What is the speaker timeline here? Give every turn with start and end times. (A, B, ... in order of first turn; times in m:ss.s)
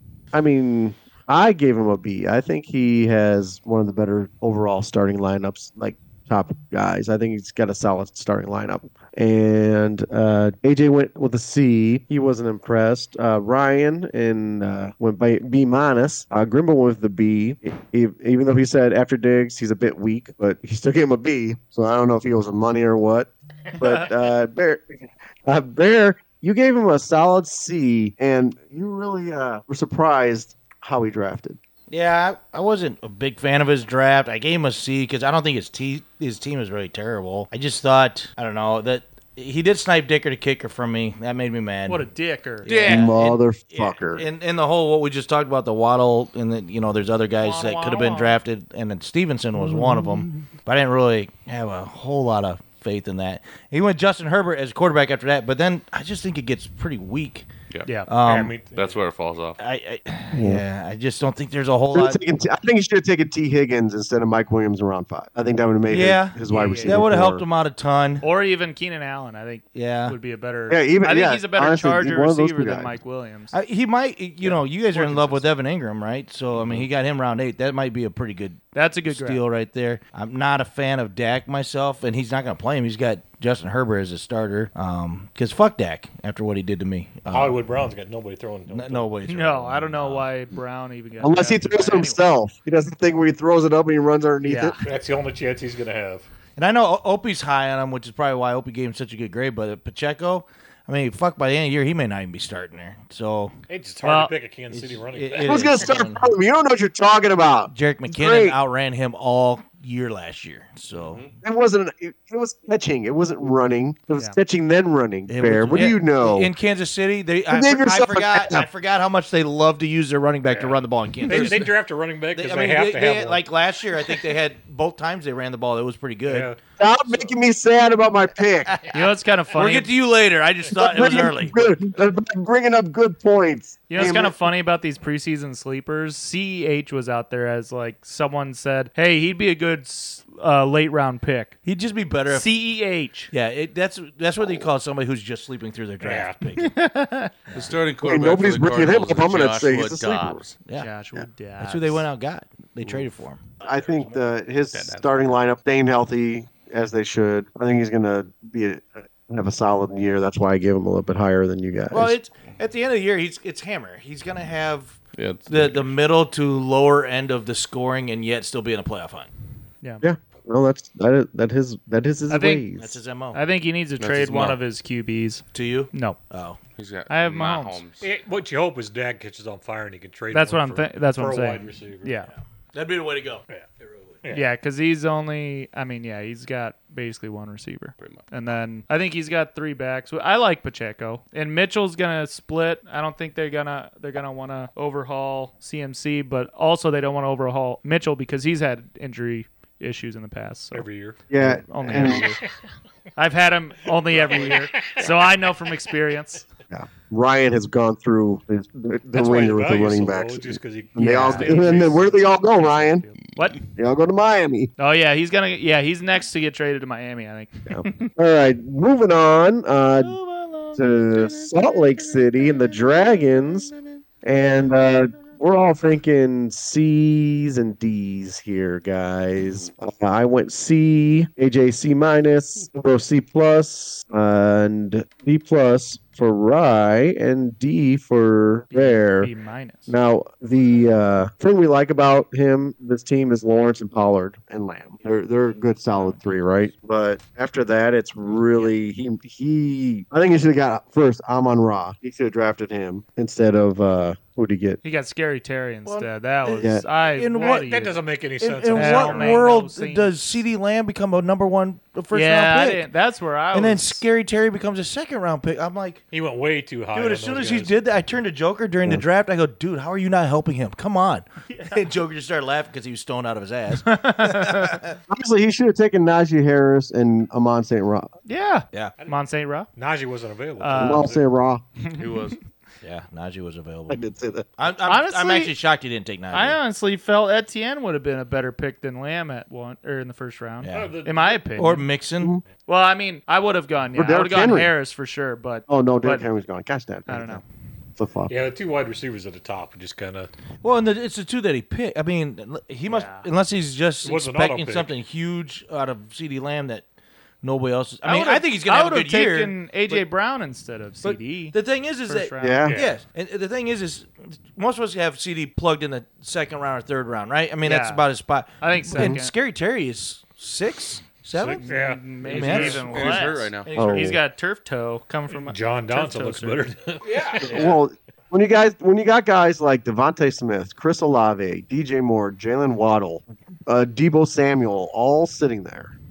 0:00.3-0:31.6 A
0:31.9-0:42.1 B
0:41.9-0:43.1 C
0:42.6-0:57.5 B
0:42.7-0:44.2 A
0:47.4-0:48.4 C
0:49.7-0:50.1 A
0:58.1-0:58.6 B
0:58.2-0:59.0 D
0:58.7-0:59.6 E
0:59.6-1:02.2 B
1:00.3-1:00.6 A
1:01.9-1:07.4 A
1:05.9-1:08.2 B
1:06.5-1:07.0 C
1:08.2-1:13.6 C
1:09.8-1:10.2 B
1:10.7-1:12.9 A
1:13.5-1:27.6 B
1:14.9-1:15.4 C
1:18.7-1:19.4 C
1:27.3-1:29.1 D
1:28.7-1:30.3 B
1:29.3-1:32.2 C
1:31.2-1:34.8 A
1:34.4-1:34.8 C
1:34.8-1:36.3 D
1:36.6-1:43.5 B
1:43.7-1:45.8 D
1:44.0-1:44.3 C
1:44.7-1:46.3 B
1:45.4-1:48.6 A
1:47.7-1:51.2 B
1:50.9-1:51.3 E
1:51.4-1:56.5 A
1:55.3-2:01.7 B
1:57.5-1:58.7 A
2:00.5-2:03.4 D
2:02.3-2:06.6 B
2:06.3-2:06.6 D
2:06.8-2:08.8 A
2:08.7-2:11.7 B
2:08.9-2:09.9 C
2:10.7-2:14.4 A
2:13.9-2:21.6 C
2:21.6-2:22.5 B
2:22.3-2:23.3 C
2:23.3-2:26.7 B
2:26.0-2:26.4 D
2:26.6-2:27.3 C
2:27.5-2:30.5 E
2:28.0-2:30.4 A
2:30.8-2:32.1 C
2:31.6-2:33.6 B
2:33.6-2:42.2 A
2:34.7-2:35.3 E
2:41.9-2:49.3 B
2:45.2-2:45.9 E
2:50.0-2:53.0 A
2:52.3-2:52.6 C
2:52.8-2:53.4 B
2:53.3-2:56.2 C
2:54.0-2:54.3 E
2:54.1-2:54.6 B
2:55.5-2:56.6 B
2:56.8-2:58.1 E
2:57.1-2:57.8 C
2:58.0-3:02.2 D
3:00.3-3:02.3 C
3:02.3-3:04.2 B
3:04.3-3:22.4 C
3:20.7-3:21.2 D
3:21.3-3:22.3 A
3:23.2-3:26.5 C
3:24.1-3:25.1 D
3:26.7-3:33.1 A
3:29.1-3:32.3 D
3:31.0-3:33.6 C
3:33.8-3:34.7 A
3:34.8-3:38.1 C
3:37.7-3:40.2 A
3:40.0-3:43.5 C
3:40.7-3:43.7 A
3:44.2-3:59.3 A
3:58.7-3:59.9 C
3:59.9-4:14.8 A
4:06.0-4:06.2 C
4:14.8-4:18.0 C
4:15.9-4:17.7 B
4:16.6-4:16.8 A
4:17.4-4:19.5 D
4:18.4-4:22.9 B
4:18.7-4:20.4 C
4:22.1-4:24.0 C
4:23.5-4:26.0 B
4:26.1-4:27.7 D
4:26.9-4:35.0 B
4:31.5-4:31.8 C
4:33.9-4:34.7 C
4:35.1-4:38.1 A
4:38.3-4:39.7 C
4:39.8-4:41.2 D
4:40.6-4:41.1 C
4:40.8-4:41.6 A
4:42.0-4:42.4 E
4:42.8-4:44.0 B
4:43.9-4:44.5 A
4:44.6-4:46.6 B
4:44.9-4:45.5 C
4:46.3-4:51.8 C
4:50.6-4:50.9 B
4:50.7-4:51.7 D
4:51.6-4:52.3 B
4:52.7-4:56.3 C
4:54.0-4:54.7 A
4:55.7-4:57.4 A
4:57.1-4:57.4 C
4:58.0-4:58.3 A
4:58.3-5:00.3 D
5:00.6-5:06.8 B
5:02.9-5:03.3 C
5:04.0-5:04.9 D
5:07.4-5:10.0 B
5:08.0-5:12.8 C
5:11.0-5:24.2 B
5:12.4-5:12.8 A
5:12.7-5:13.0 D
5:17.6-5:18.0 C
5:18.6-5:19.3 C
5:21.4-5:23.2 D
5:21.6-5:26.7 C
5:22.3-5:23.7 E
5:23.8-5:24.2 A
5:25.3-5:27.7 D
5:27.4-5:35.9 A
5:27.4-5:27.7 B